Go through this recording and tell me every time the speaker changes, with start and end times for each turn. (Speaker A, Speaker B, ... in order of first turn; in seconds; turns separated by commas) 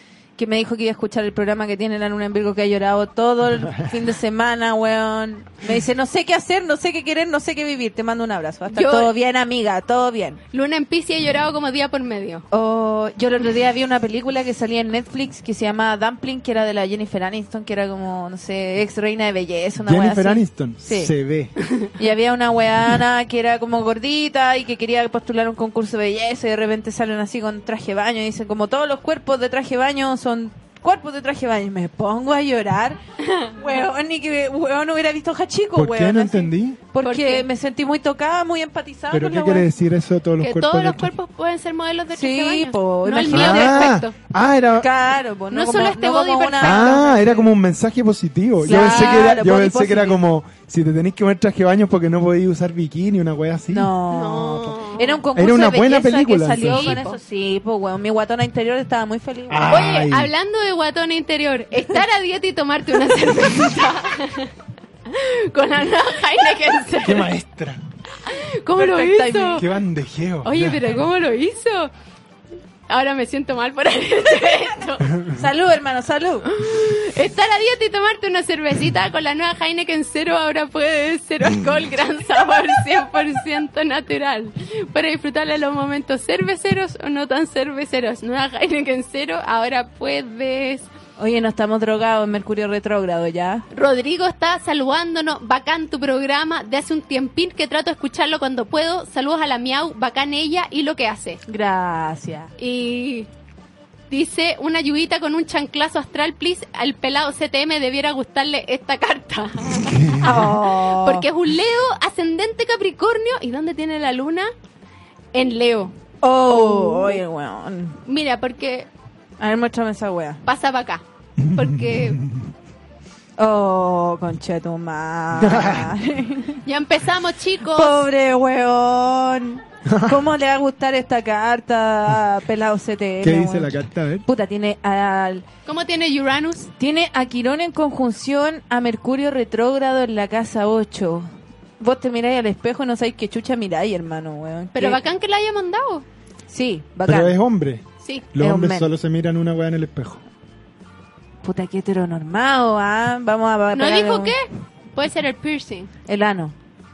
Speaker A: 0.4-10.4, Speaker B: 8.7-9.1, Speaker B: 10.5-12.4, Speaker A: 12.5-21.1, Speaker C: 19.8-21.5, Speaker A: 21.9-39.7, Speaker C: 35.8-36.8, Speaker B: 37.0-37.5, Speaker C: 39.1-41.1, Speaker B: 40.4-44.1, Speaker A: 42.1-44.0, Speaker C: 43.2-44.9, Speaker A: 44.8-47.5, Speaker B: 45.5-47.5, Speaker C: 46.6-53.9, Speaker A: 48.6-50.2, Speaker B: 48.7-49.3, Speaker A: 53.7-59.7, Speaker B: 54.1-55.2, Speaker C: 55.3-57.0, Speaker B: 56.6-57.2, Speaker C: 59.5-60.3, Speaker B: 59.7-64.5, Speaker B: 65.1-67.3, Speaker C: 67.0-67.8, Speaker B: 68.2-69.6, Speaker A: 68.7-69.7, Speaker C: 69.5-70.8, Speaker B: 70.4-71.9, Speaker B: 72.9-75.1, Speaker A: 75.3-76.5, Speaker B: 76.5-90.9, Speaker A: 91.2-93.6, Speaker B: 93.7-101.4, Speaker A: 101.5-102.5, Speaker B: 102.6-103.3, Speaker B: 104.1-114.5, Speaker C: 109.8-110.5, Speaker A: 110.2-111.2, Speaker B: 115.3-115.9, Speaker A: 116.2-118.0, Speaker B: 116.5-117.2, Speaker B: 118.0-118.9, Speaker A: 119.4-120.4, Speaker B: 120.4-122.2, Speaker A: 123.4-126.6, Speaker C: 125.4-125.9, Speaker B: 126.6-128.0, Speaker A: 127.6-135.4, Speaker C: 129.9-130.2, Speaker C: 133.2-134.2, Speaker B: 135.7-136.7, Speaker A: 136.8-141.3, Speaker A: 141.8-145.0, Speaker B: 144.7-146.0, Speaker A: 146.5-147.4, Speaker C: 147.1-150.2, Speaker B: 148.0-148.3, Speaker A: 148.4-148.9, Speaker A: 151.4-154.3, Speaker B: 153.7-155.9, Speaker A: 156.1-156.5